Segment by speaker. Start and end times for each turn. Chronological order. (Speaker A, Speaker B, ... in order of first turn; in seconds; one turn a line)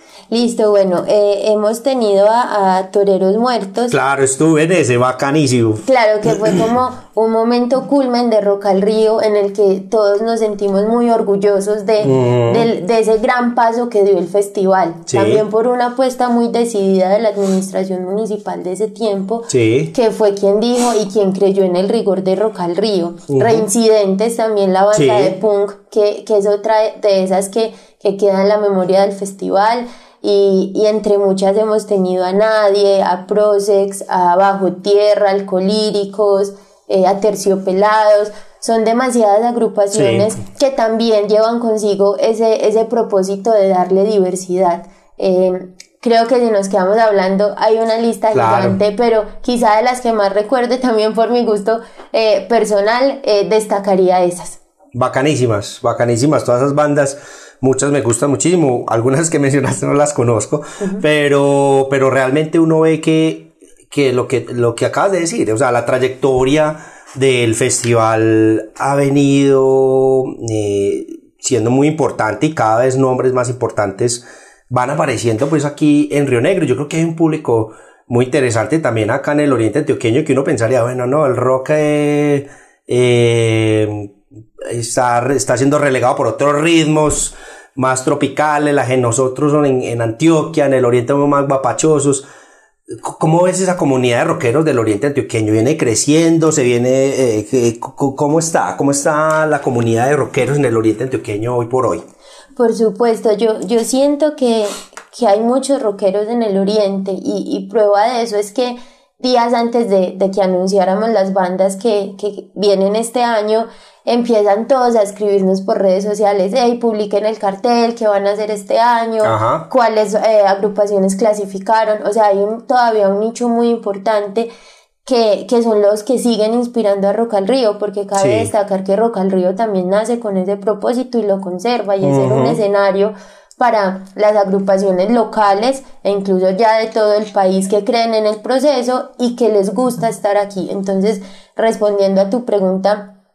Speaker A: 0.3-4.0
Speaker B: 3.9-6.6
Speaker A: 5.8-54.6
Speaker B: 12.0-12.7
Speaker B: 15.1-15.4
Speaker B: 19.5-19.9
Speaker B: 23.3-23.6
Speaker B: 24.9-25.4
Speaker B: 39.9-40.3
Speaker B: 48.3-48.8
Speaker B: 54.9-92.2
Speaker B: 92.9-102.0
Speaker A: 102.6-124.5
Speaker B: 119.2-119.7
Speaker A: 125.0-143.2
Speaker B: 128.2-128.5
Speaker B: 132.0-132.6